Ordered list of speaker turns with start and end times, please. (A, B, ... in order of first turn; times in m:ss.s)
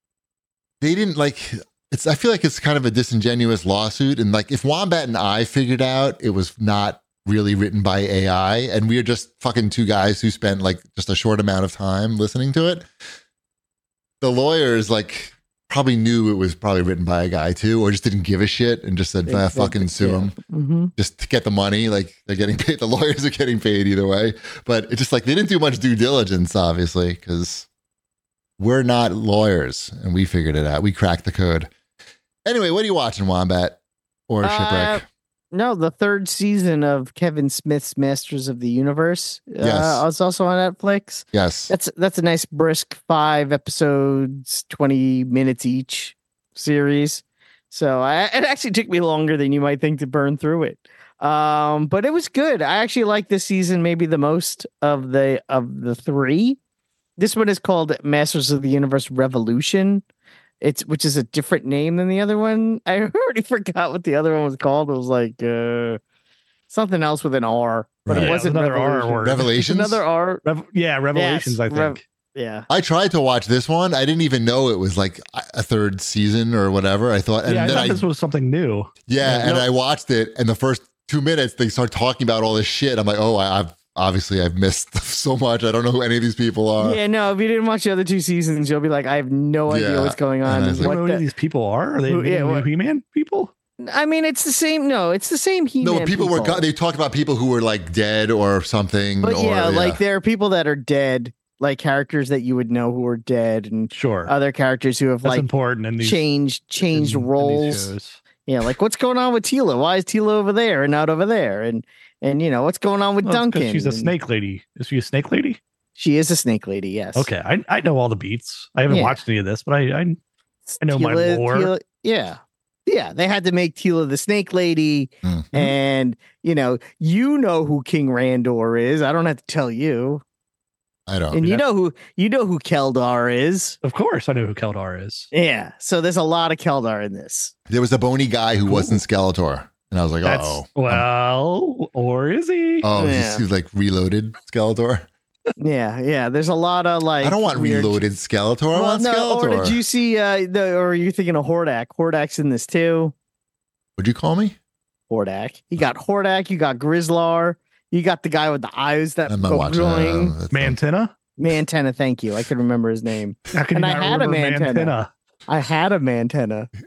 0:00.8-0:12.9 A
0:14.2-0:20.4 A
0:19.3-0:20.9 B
0:21.0-0:27.7 A
0:28.6-0:31.7 A
0:32.4-0:35.0 A
0:34.4-0:56.6 B
0:39.6-0:40.0 A
0:41.3-0:41.7 A
0:57.2-1:00.0 B
1:00.6-1:06.0 B
1:06.7-1:10.4 B
1:08.1-1:08.4 A
1:08.1-1:09.5 C
1:09.2-1:10.0 A
1:10.4-1:12.0 C
1:11.1-1:12.7 B
1:12.7-1:18.0 A
1:17.4-1:19.5 C
1:19.1-1:27.0 A
1:19.2-1:19.6 B
1:26.8-1:31.2 B
1:29.7-1:30.9 A
1:30.8-1:33.5 C
1:32.0-1:32.7 B
1:33.8-1:36.6 B
1:35.8-1:40.0 A
1:39.2-1:45.5 B
1:43.9-1:44.3 C
1:45.2-1:46.2 C
1:46.0-1:47.9 B
1:46.8-1:48.2 C
1:48.5-1:54.1 B
1:53.2-1:55.6 C
1:56.0-1:57.3 B
1:57.2-2:00.2 C
1:58.9-1:59.2 B
2:00.7-2:10.2 B
2:00.8-2:01.7 C
2:05.2-2:05.7 A
2:11.1-2:11.4 A
2:11.3-2:13.8 B
2:13.8-2:15.3 C
2:15.3-2:17.5 B
2:17.7-2:21.0 A
2:20.2-2:22.9 C
2:22.8-2:25.1 A
2:23.0-2:23.4 B
2:25.6-2:28.0 B
2:27.2-2:29.8 A
2:28.7-2:33.1 B
2:34.0-2:34.6 A
2:35.1-2:40.4 B
2:39.3-2:40.8 A
2:40.5-2:41.1 C
2:41.4-2:45.0 B
2:43.5-2:45.1 C
2:45.5-2:46.7 B